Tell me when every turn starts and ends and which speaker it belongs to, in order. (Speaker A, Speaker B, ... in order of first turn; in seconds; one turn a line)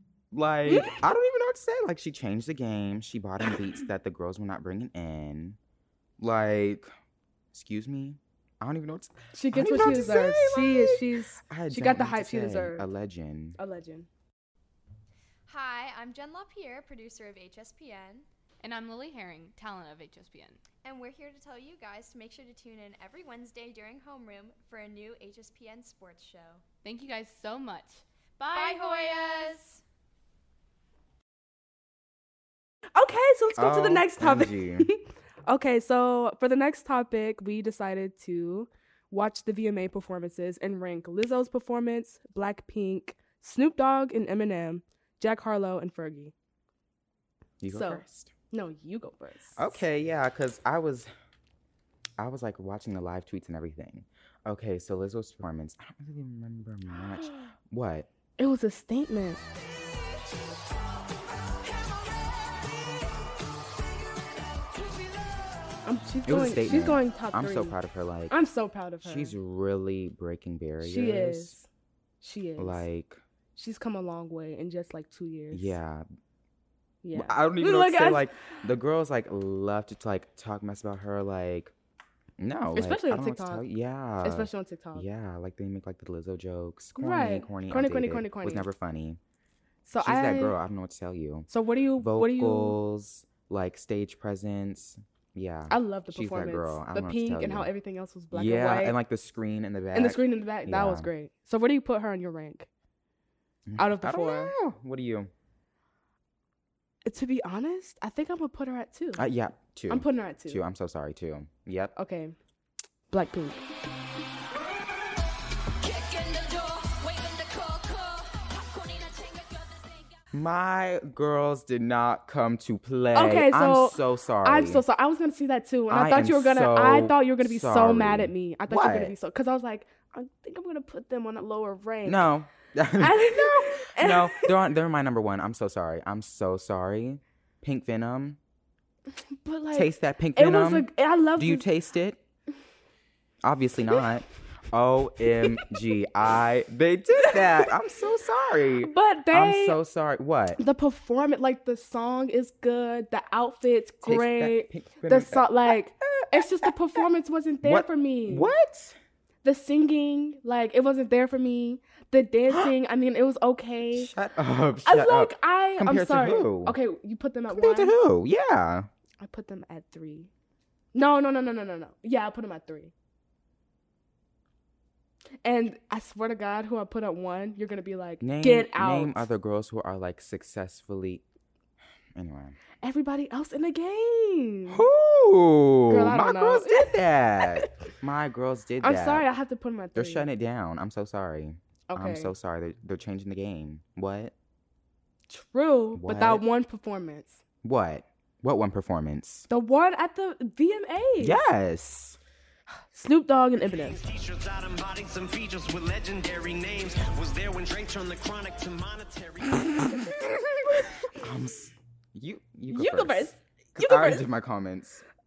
Speaker A: 0.3-5.6
Speaker B: 0.7-1.0
Speaker A: 6.2-6.9
Speaker A: 7.5-13.6
Speaker B: 9.3-12.9
Speaker B: 13.6-14.1
Speaker C: 15.5-18.2
Speaker D: 18.6-20.6
Speaker C: 20.8-26.6
Speaker D: 26.8-29.3
Speaker C: 28.5-29.8
Speaker B: 33.0-46.3
Speaker A: 33.6-34.9
Speaker A: 47.6-48.3
Speaker B: 47.7-49.8
Speaker A: 49.6-51.1
Speaker A: 52.2-58.1
Speaker B: 58.4-59.4
Speaker B: 65.8-67.8
Speaker A: 66.2-68.3
Speaker B: 68.3-69.3
Speaker A: 69.0-71.6
Speaker B: 70.8-71.7
Speaker B: 72.2-72.8
Speaker A: 72.6-73.2
Speaker B: 73.5-75.8
Speaker A: 75.5-76.0
Speaker B: 77.0-78.3
Speaker A: 77.1-81.7
Speaker A: 82.4-89.2
Speaker B: 82.7-83.7
Speaker B: 84.2-85.0
Speaker B: 87.0-88.7
Speaker B: 89.8-90.6
Speaker A: 90.0-97.7
Speaker B: 91.5-92.8
Speaker B: 95.7-99.0
Speaker A: 98.3-101.1
Speaker B: 99.9-102.7
Speaker A: 103.7-105.3
Speaker B: 103.8-104.6
Speaker B: 107.0-109.2
Speaker A: 109.2-111.9
Speaker B: 109.9-110.6
Speaker B: 112.0-112.3
Speaker B: 113.1-113.6
Speaker D: 115.8-120.1
Speaker A: 120.3-124.8
Speaker B: 123.1-132.3
Speaker A: 125.9-129.1
Speaker A: 132.0-138.4
Speaker B: 133.0-134.5
Speaker B: 139.4-141.7
Speaker A: 139.7-142.2
Speaker A: 143.4-150.6
Speaker B: 145.3-145.6
Speaker B: 147.2-147.7
Speaker B: 148.8-149.8
Speaker B: 150.6-158.5
Speaker A: 154.0-155.7
Speaker A: 157.6-159.0
Speaker B: 159.4-164.1
Speaker A: 163.9-166.8
Speaker B: 164.8-167.9
Speaker A: 167.5-168.9
Speaker B: 169.2-170.3
Speaker B: 170.9-172.9
Speaker B: 175.4-179.3
Speaker A: 178.2-181.2
Speaker A: 182.2-182.6
Speaker B: 182.8-184.8
Speaker A: 184.7-189.2
Speaker B: 185.9-187.7
Speaker B: 188.8-190.3
Speaker A: 189.9-194.3
Speaker B: 191.9-192.3
Speaker B: 195.3-197.4
Speaker A: 195.9-196.4
Speaker A: 197.6-199.5
Speaker B: 199.5-201.4
Speaker A: 201.2-202.2
Speaker B: 202.9-204.0
Speaker E: 203.8-209.8
Speaker A: 211.1-215.0
Speaker B: 212.7-214.3